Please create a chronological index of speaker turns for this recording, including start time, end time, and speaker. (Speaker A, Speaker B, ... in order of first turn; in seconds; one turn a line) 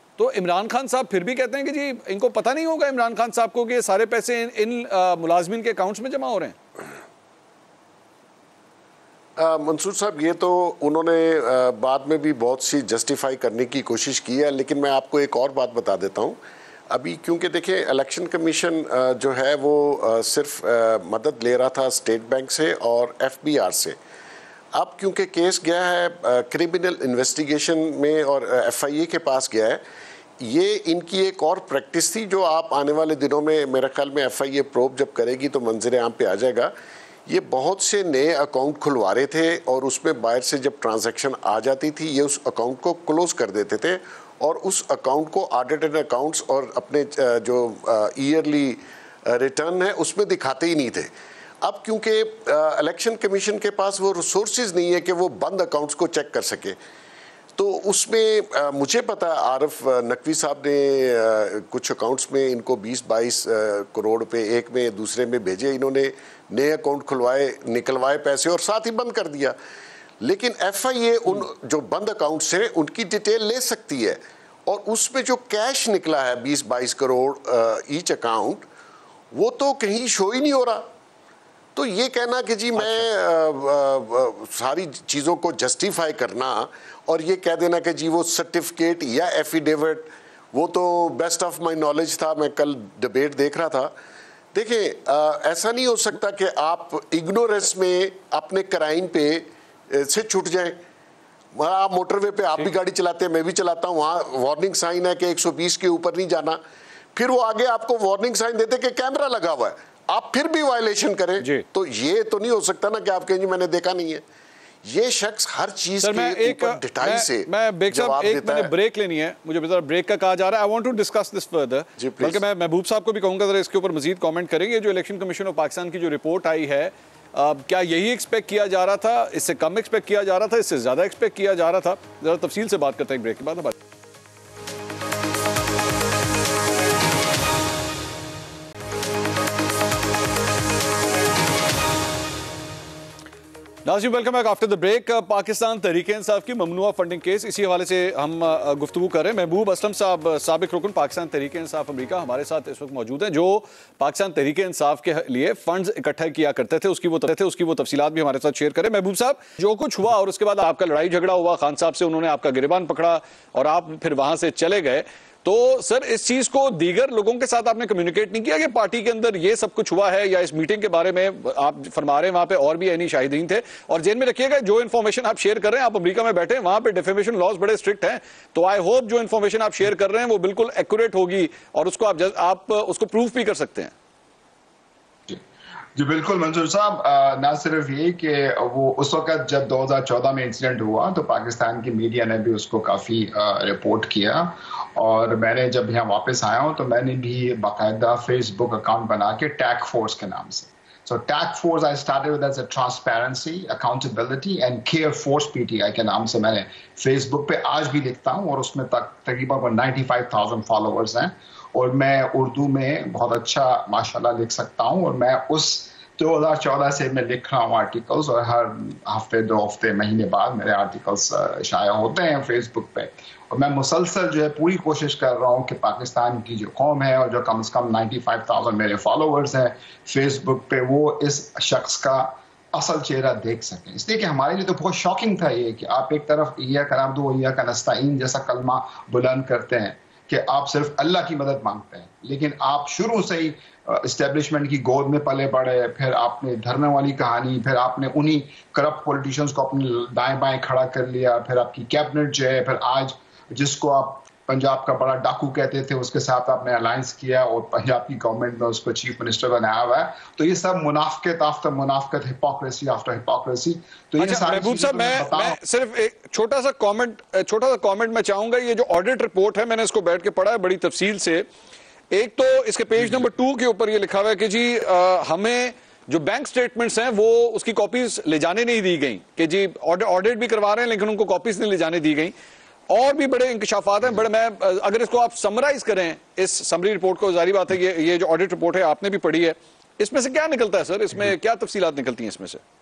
Speaker A: 0.2-6.6
Speaker B: 9.4-16.4
Speaker B: 16.9-24.0
Speaker B: 24.8-29.8
Speaker B: 30.4-36.7
Speaker B: 37.3-56.8
Speaker B: 57.6-69.6
Speaker B: 70.2-78.7
Speaker B: 79.3-80.9
Speaker B: 81.8-93.9
Speaker A: 82.8-83.1
Speaker B: 94.5-100.8
Speaker B: 101.5-106.6
Speaker B: 107.2-114.2
Speaker A: 111.4-111.7
Speaker B: 114.8-118.7
Speaker A: 116.0-133.8
Speaker B: 122.0-122.4
Speaker A: 143.8-183.9
Speaker C: 185.9-265.6
Speaker A: 264.2-271.4
Speaker A: 272.1-282.3
Speaker A: 282.9-292.6